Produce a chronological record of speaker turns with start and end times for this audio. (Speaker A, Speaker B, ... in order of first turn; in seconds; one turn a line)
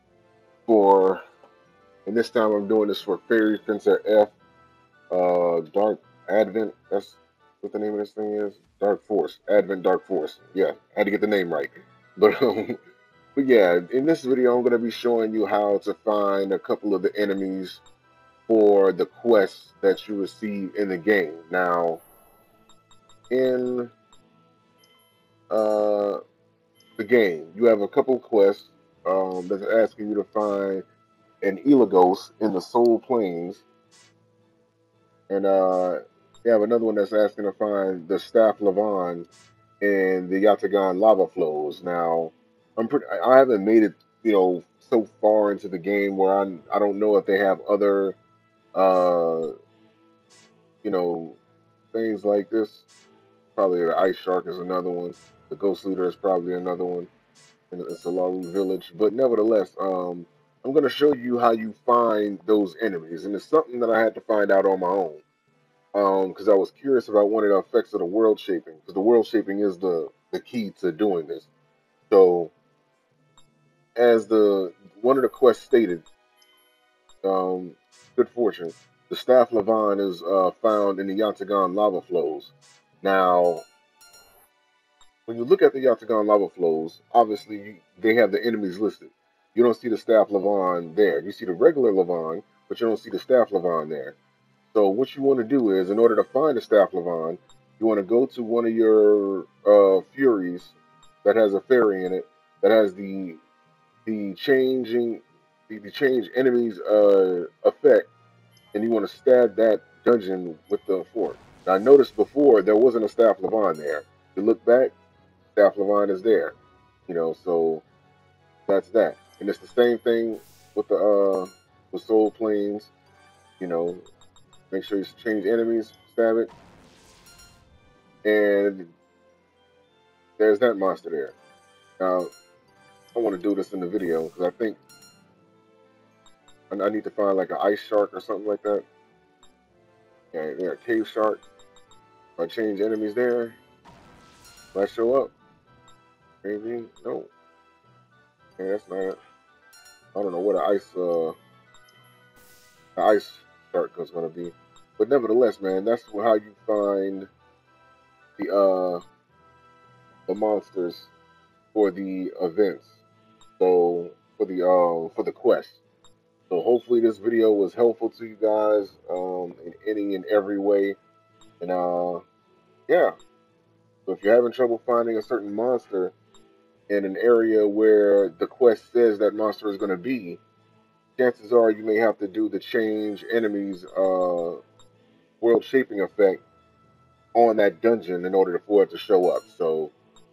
Speaker A: 0.7-1.2
Speaker A: 2.0-4.3
Speaker A: 5.1-12.8
Speaker A: 13.3-17.8
Speaker A: 18.5-22.0
Speaker A: 23.3-23.9
Speaker A: 25.5-26.2
Speaker A: 27.0-30.8
Speaker A: 31.4-33.6
Speaker A: 35.3-39.3
Speaker A: 39.8-48.2
Speaker A: 48.7-49.5
Speaker A: 50.8-51.4
Speaker A: 51.9-52.9
Speaker A: 53.5-57.1
Speaker A: 57.7-65.2
Speaker A: 65.9-71.5
Speaker A: 72.1-72.5
Speaker A: 74.0-76.0
Speaker A: 77.2-83.7
Speaker A: 85.3-94.2
Speaker A: 94.7-103.4
Speaker A: 104.0-108.1
Speaker A: 108.7-114.9
Speaker A: 115.5-116.5
Speaker A: 117.1-117.8
Speaker A: 118.7-122.9
Speaker A: 123.6-124.0
Speaker A: 124.7-126.5
Speaker A: 128.2-128.9
Speaker A: 130.4-131.3
Speaker A: 132.0-132.3
Speaker A: 133.1-134.8
Speaker A: 136.7-138.8
Speaker A: 140.3-141.4
Speaker A: 142.4-143.6
Speaker A: 144.7-145.3
Speaker A: 146.4-147.3
Speaker A: 148.6-149.2
Speaker A: 150.1-151.3
Speaker A: 152.9-157.3
Speaker A: 158.4-159.0
Speaker A: 160.3-161.1
Speaker A: 161.7-163.0
Speaker A: 163.6-165.8
Speaker A: 166.5-171.0
Speaker A: 171.6-172.2
Speaker A: 172.9-173.1
Speaker A: 174.1-176.1
Speaker A: 176.9-180.4
Speaker A: 181.2-184.6
Speaker A: 185.4-186.4
Speaker A: 187.3-189.9